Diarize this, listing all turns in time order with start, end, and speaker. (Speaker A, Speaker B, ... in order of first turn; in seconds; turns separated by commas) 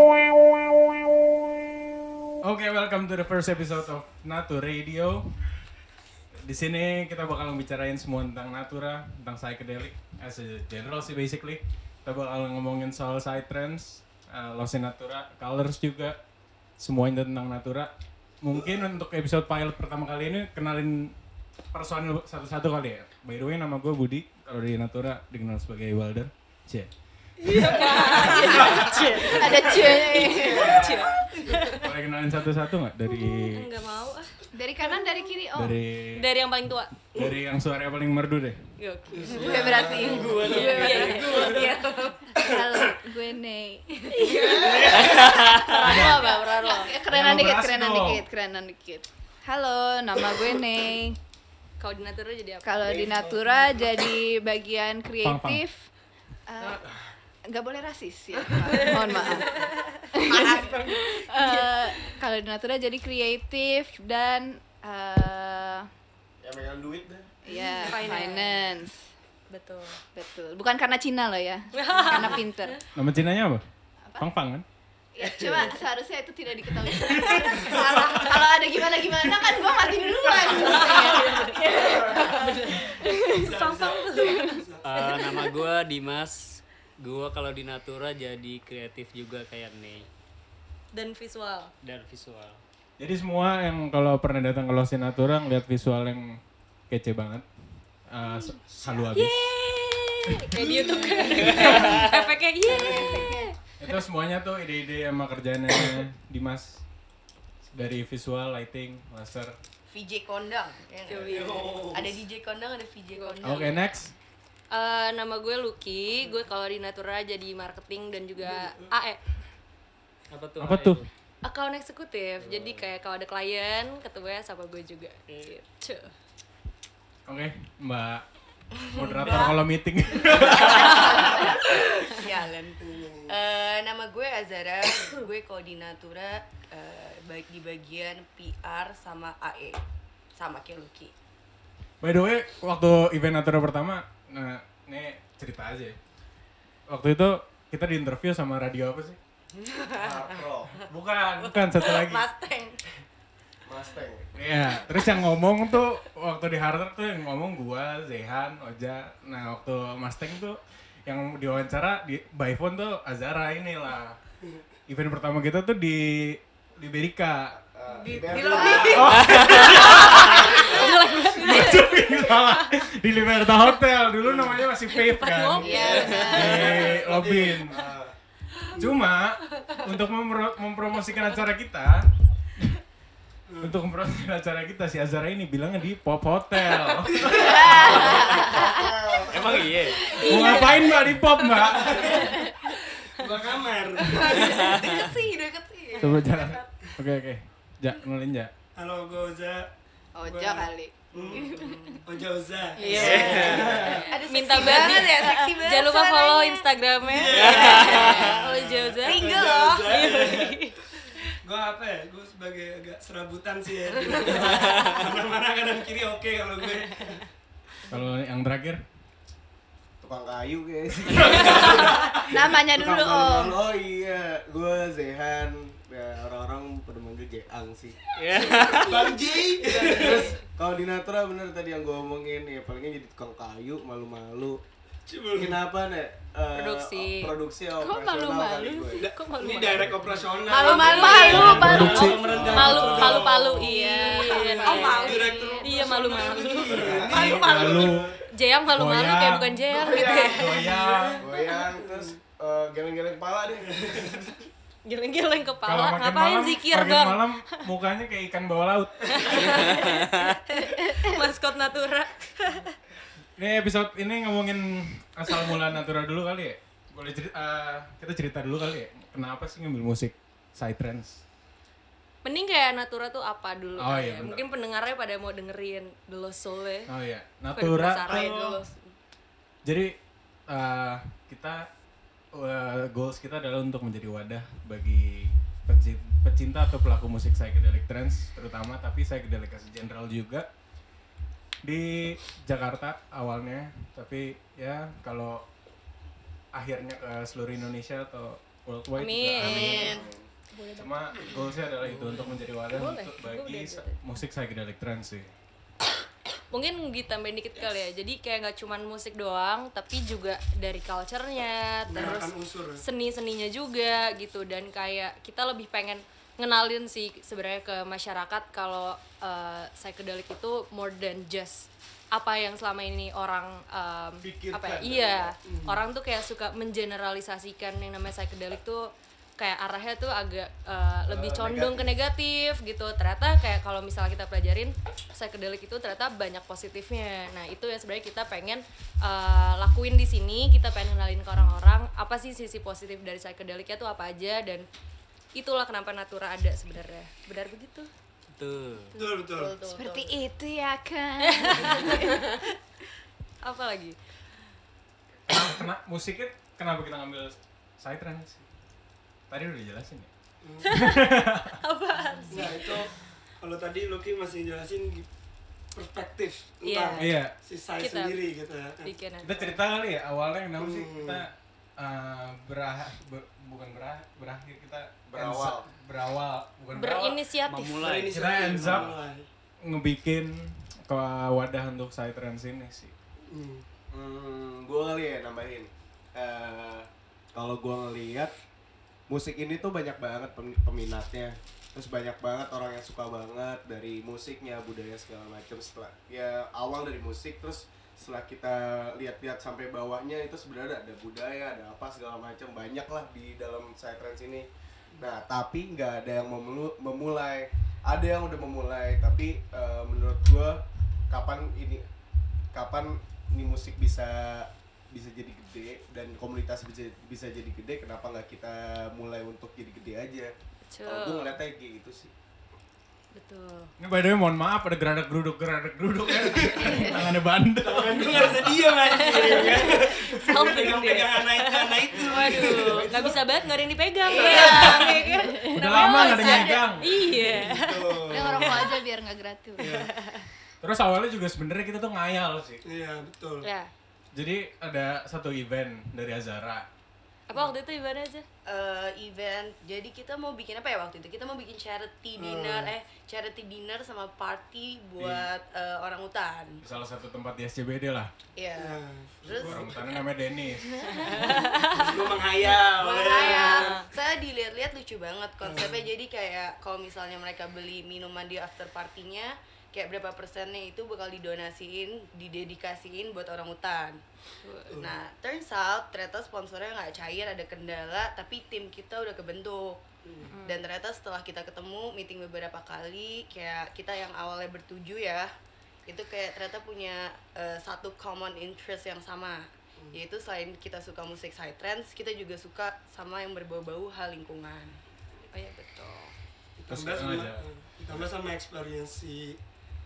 Speaker A: 2.4-5.2, Speaker A: 6.5-16.1, Speaker A: 16.8-17.9, Speaker A: 18.4-21.1, Speaker A: 21.7-26.9, Speaker B: 27.5-31.8, Speaker C: 27.8-30.9, Speaker A: 28.4-28.9, Speaker D: 30.3-31.8, Speaker A: 31.8-33.7, Speaker B: 33.3-34.3, Speaker C: 34.5-35.8, Speaker A: 35.5-36.3, Speaker B: 36.1-37.0, Speaker A: 37.1-38.6, Speaker B: 38.8-39.6, Speaker D: 39.1-41.8, Speaker C: 39.3-41.5, Speaker E: 39.5-42.2, Speaker F: 39.5-40.3, Speaker B: 40.3-42.0, Speaker G: 40.8-41.2, Speaker C: 42.3-44.9, Speaker D: 42.4-42.7, Speaker B: 44.1-47.0, Speaker D: 44.5-45.3, Speaker G: 45.0-45.6, Speaker A: 45.8-46.2, Speaker C: 45.9-51.2, Speaker A: 47.1-48.2, Speaker B: 51.8-52.8, Speaker C: 52.6-55.8, Speaker D: 52.8-53.6, Speaker A: 55.2-55.6, Speaker C: 56.5-56.9, Speaker C: 57.5-65.9, Speaker B: 58.7-60.5, Speaker E: 60.3-60.8, Speaker B: 61.4-61.7, Speaker F: 66.4-67.3, Speaker C: 67.4-69.0, Speaker B: 67.5-68.6, Speaker B: 69.5-70.0, Speaker C: 70.1-72.8, Speaker B: 71.7-72.7, Speaker A: 72.9-73.6, Speaker A: 74.2-74.6, Speaker C: 75.2-83.3, Speaker D: 75.2-75.7, Speaker B: 77.3-77.8, Speaker E: 77.9-78.3, Speaker E: 79.7-80.1, Speaker B: 80.6-85.6, Speaker E: 80.6-81.1, Speaker D: 83.3-84.9, Speaker G: 84.8-90.1, Speaker B: 90.9-91.7, Speaker G: 91.8-92.6, Speaker A: 93.0-96.4, Speaker A: 96.9-97.4, Speaker A: 98.1-99.5, Speaker D: 98.7-99.1, Speaker B: 99.1-103.9, Speaker D: 100.6-101.7, Speaker G: 101.3-102.1, Speaker A: 101.5-102.1, Speaker D: 102.7-103.3, Speaker C: 102.7-103.3, Speaker A: 103.8-106.8, Speaker A: 107.7-109.5, Speaker E: 109.9-113.9, Speaker B: 111.1-111.7, Speaker D: 111.3-112.2, Speaker B: 113.1-113.6, Speaker A: 113.4-114.1, Speaker B: 114.7-119.2, Speaker D: 118.4-118.9, Speaker G: 120.3-121.1, Speaker A: 120.6-121.0, Speaker B: 121.4-126.1, Speaker G: 122.4-122.8, Speaker A: 127.3-128.2, Speaker E: 128.8-129.6, Speaker A: 128.9-131.3, Speaker E: 130.2-139.8, Speaker B: 130.7-131.4, Speaker D: 132.8-133.3, Speaker E: 140.3-141.1, Speaker A: 142.0-145.9, Speaker A: 146.9-149.2, Speaker E: 149.6-150.4, Speaker F: 150.0-150.7, Speaker A: 150.9-152.2, Speaker E: 151.4-152.8, Speaker F: 153.7-154.3, Speaker A: 154.3-164.2, Speaker E: 155.0-155.9, Speaker A: 164.9-167.5, Speaker F: 167.6-170.7, Speaker E: 168.2-169.1, Speaker B: 168.2-172.6, Speaker D: 168.4-169.0, Speaker A: 168.8-170.4, Speaker A: 171.2-177.9, Speaker D: 174.2-174.6, Speaker B: 174.9-176.6, Speaker C: 175.6-176.7, Speaker D: 175.7-178.1, Speaker F: 177.7-178.0, Speaker D: 178.8-179.1, Speaker A: 178.8-182.1, Speaker D: 183.5-183.7, Speaker A: 183.6-188.0, Speaker D: 186.8-187.8, Speaker C: 187.3-189.0, Speaker F: 188.0-189.7, Speaker G: 189.3-190.1, Speaker C: 190.1-190.6, Speaker A: 190.2-192.2, Speaker B: 190.2-192.7, Speaker D: 191.9-192.3, Speaker D: 193.0-194.8, Speaker E: 194.1-196.7, Speaker G: 194.5-194.9, Speaker A: 196.0-198.5, Speaker D: 198.8-199.7, Speaker C: 200.2-202.0, Speaker D: 200.2-201.5, Speaker E: 201.2-202.0, Speaker D: 202.1-204.2, Speaker C: 202.8-203.6, Speaker B: 202.8-209.3, Speaker G: 203.0-203.8, Speaker E: 203.1-203.5, Speaker E: 204.1-206.7, Speaker D: 207.0-210.6, Speaker E: 207.3-208.3, Speaker G: 207.4-208.1, Speaker E: 209.0-210.1, Speaker B: 209.9-210.8, Speaker D: 211.4-217.2, Speaker E: 214.5-214.8, Speaker A: 217.9-218.8, Speaker F: 220.0-228.5, Speaker D: 221.3-221.8, Speaker C: 222.1-223.6, Speaker G: 228.2-229.2, Speaker D: 228.6-230.3, Speaker F: 229.7-234.6, Speaker D: 235.1-235.6, Speaker F: 235.3-239.1, Speaker B: 236.6-237.3, Speaker C: 237.8-238.9, Speaker B: 239.0-246.8, Speaker D: 239.0-243.7, Speaker C: 240.5-245.5, Speaker E: 240.5-242.1, Speaker A: 241.2-242.8, Speaker F: 241.4-242.8, Speaker E: 244.1-245.8, Speaker D: 244.3-248.2, Speaker F: 246.7-247.5, Speaker A: 247.0-248.1, Speaker E: 247.1-247.9, Speaker B: 248.3-250.8, Speaker A: 248.7-251.2, Speaker D: 249.7-251.2, Speaker F: 251.2-254.3, Speaker D: 251.7-252.2, Speaker D: 253.8-254.3, Speaker B: 254.9-257.3, Speaker A: 255.6-259.6, Speaker B: 259.1-262.8, Speaker G: 259.8-260.1, Speaker C: 260.9-261.1, Speaker A: 263.4-271.2, Speaker B: 272.2-276.9, Speaker A: 273.8-274.4, Speaker A: 276.9-278.6, Speaker B: 277.6-278.8, Speaker E: 278.1-278.4, Speaker A: 279.6-279.9, Speaker A: 280.5-281.7, Speaker A: 282.4-290.4, Speaker A: 291.6-295.4, Speaker A: 296.5-300.0, Speaker B: 299.0-300.0, Speaker E: 299.4-300.1, Speaker F: 299.8-300.2, Speaker B: 300.6-301.3, Speaker A: 300.8-305.3, Speaker G: 302.0-302.3, Speaker B: 302.7-304.0, Speaker B: 306.5-344.7, Speaker D: 311.9-312.8, Speaker F: 324.2-325.3, Speaker D: 325.4-325.8, Speaker F: 331.1-331.9, Speaker B: 345.4-347.9, Speaker G: 348.4-348.9, Speaker D: 348.9-349.6, Speaker E: 349.2-350.1, Speaker C: 349.6-352.4, Speaker B: 351.2-352.4, Speaker B: 353.4-353.9, Speaker A: 355.3-358.4, Speaker A: 359.3-360.1, Speaker D: 360.4-360.7, Speaker B: 360.6-362.6, Speaker A: 360.6-361.6, Speaker D: 362.3-365.1, Speaker D: 365.8-368.9, Speaker B: 366.6-367.1, Speaker A: 367.0-367.3, Speaker B: 367.8-368.2, Speaker B: 368.8-369.5, Speaker A: 369.2-377.2, Speaker D: 370.6-371.2, Speaker F: 375.1-375.7, Speaker B: 376.7-377.8, Speaker G: 377.5-378.3, Speaker D: 377.8-379.2, Speaker A: 378.1-379.0, Speaker A: 379.6-382.9, Speaker D: 383.3-383.6, Speaker F: 383.9-388.3, Speaker F: 389.1-404.5, Speaker F: 405.0-411.8, Speaker F: 412.5-420.3, Speaker B: 420.7-421.4, Speaker F: 420.9-422.1, Speaker B: 423.1-423.7, Speaker A: 423.8-428.7, Speaker D: 426.2-426.6, Speaker D: 427.6-433.4, Speaker B: 428.9-438.8, Speaker E: 434.1-435.0, Speaker D: 434.1-434.8, Speaker C: 434.3-436.5, Speaker A: 435.5-436.9, Speaker E: 436.1-436.6, Speaker D: 437.0-438.8, Speaker C: 438.0-439.8, Speaker D: 439.6-439.9, Speaker B: 439.7-440.2, Speaker A: 440.6-442.6, Speaker D: 442.6-443.4, Speaker B: 443.4-443.7, Speaker A: 444.1-446.6, Speaker B: 447.3-448.2, Speaker E: 448.4-456.6, Speaker D: 452.2-452.7, Speaker A: 455.0-455.3, Speaker A: 456.6-458.1, Speaker E: 458.4-460.0, Speaker D: 458.6-459.9, Speaker A: 459.3-461.0, Speaker B: 460.9-461.9, Speaker E: 461.0-474.0, Speaker D: 461.2-463.8, Speaker B: 463.2-463.9, Speaker D: 465.4-465.9, Speaker B: 474.4-474.8, Speaker E: 474.8-479.8, Speaker D: 480.0-480.3, Speaker B: 480.2-480.6, Speaker E: 480.4-485.3, Speaker E: 485.9-494.8, Speaker B: 495.3-496.1, Speaker D: 496.6-499.4, Speaker A: 496.7-498.0